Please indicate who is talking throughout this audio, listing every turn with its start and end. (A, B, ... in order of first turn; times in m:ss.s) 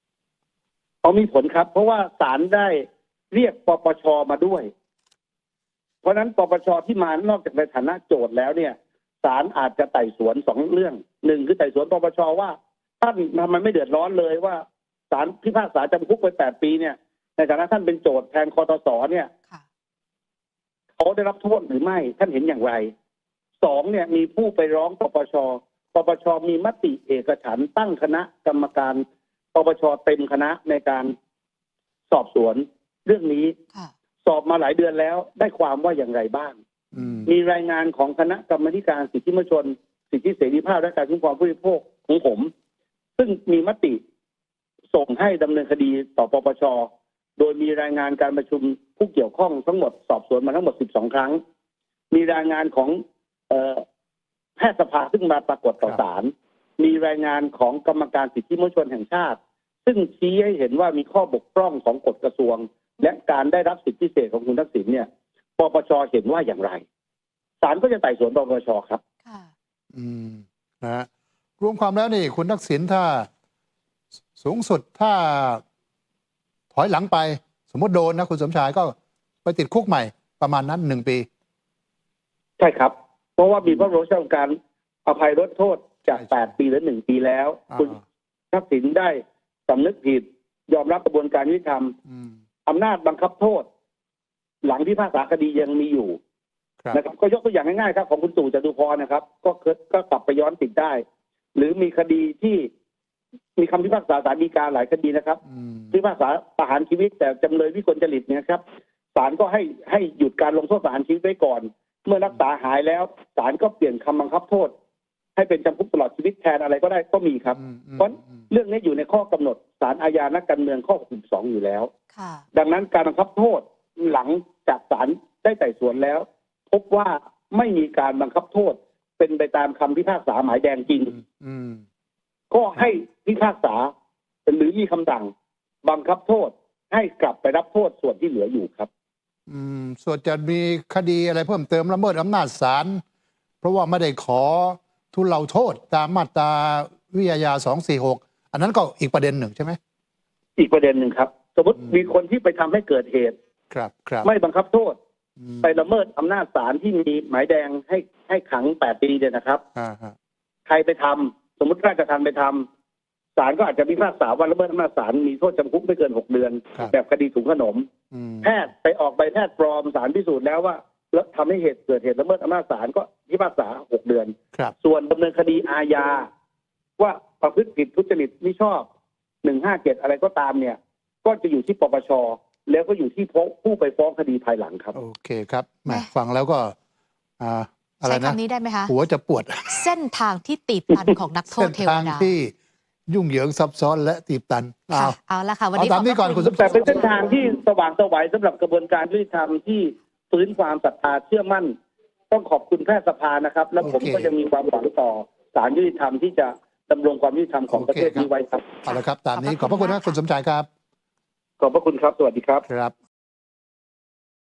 0:01.0-0:04.7 A
0:06.0-0:19.3 A
0:21.0-0:22.9 A
0:23.6-0:31.1 A
0:32.1-0:33.6 A
0:34.2-0:36.6 A
0:36.9-0:37.3 B
0:37.2-0:42.5 A
0:43.2-0:44.0 A
0:44.9-0:51.4 A
0:52.1-0:53.0 A
0:53.5-0:53.8 A
0:54.6-1:06.8 A
1:07.6-1:09.0 A
1:09.2-1:09.5 C
1:09.9-1:11.1 B
1:11.6-1:13.3 B
1:14.4-1:15.6 B
1:16.7-1:21.3 B
1:22.6-1:24.5 A
1:25.0-1:28.0 A
1:27.8-1:28.0 B
1:28.5-1:31.9 A
1:32.1-1:32.4 B
1:32.6-1:33.6 A
1:34.6-1:36.2 A
1:36.9-1:41.0 A
1:41.5-1:42.7 A
1:43.6-1:45.4 A
1:45.5-1:46.0 B
1:45.9-1:48.6 A
1:49.1-1:54.7 A
1:55.4-2:01.9 A
1:57.6-1:58.3 B
2:02.1-2:02.4 C
2:02.5-2:11.1 A
2:11.1-2:11.8 B
2:12.5-2:13.9 A
2:14.5-2:15.3 A
2:15.8-2:18.9 A
2:19.5-2:23.0 B
2:23.6-2:29.8 B
2:30.6-2:33.4 A
2:33.7-2:34.3 B
2:34.2-2:35.0 A
2:35.4-2:35.7 B
2:35.6-2:39.6 A
2:39.8-2:40.1 B
2:40.7-2:42.6 A
2:43.4-2:47.9 A
2:48.1-2:48.5 B
2:48.4-2:56.3 A
2:57.0-2:58.9 A
2:59.4-3:05.0 A
3:04.9-3:06.8 B
3:07.4-3:09.8 B
3:08.0-3:08.9 C
3:09.7-3:12.3 C
3:11.5-3:12.5 B
3:13.1-3:15.2 B
3:14.9-3:17.2 C
3:15.8-3:17.1 B
3:16.4-3:21.7 A
3:22.3-3:28.8 A
3:23.8-3:24.3 B
3:27.7-3:28.3 B
3:28.8-3:30.7 B
3:28.9-3:30.2 C
3:31.6-3:32.6 A
3:32.7-3:33.0 B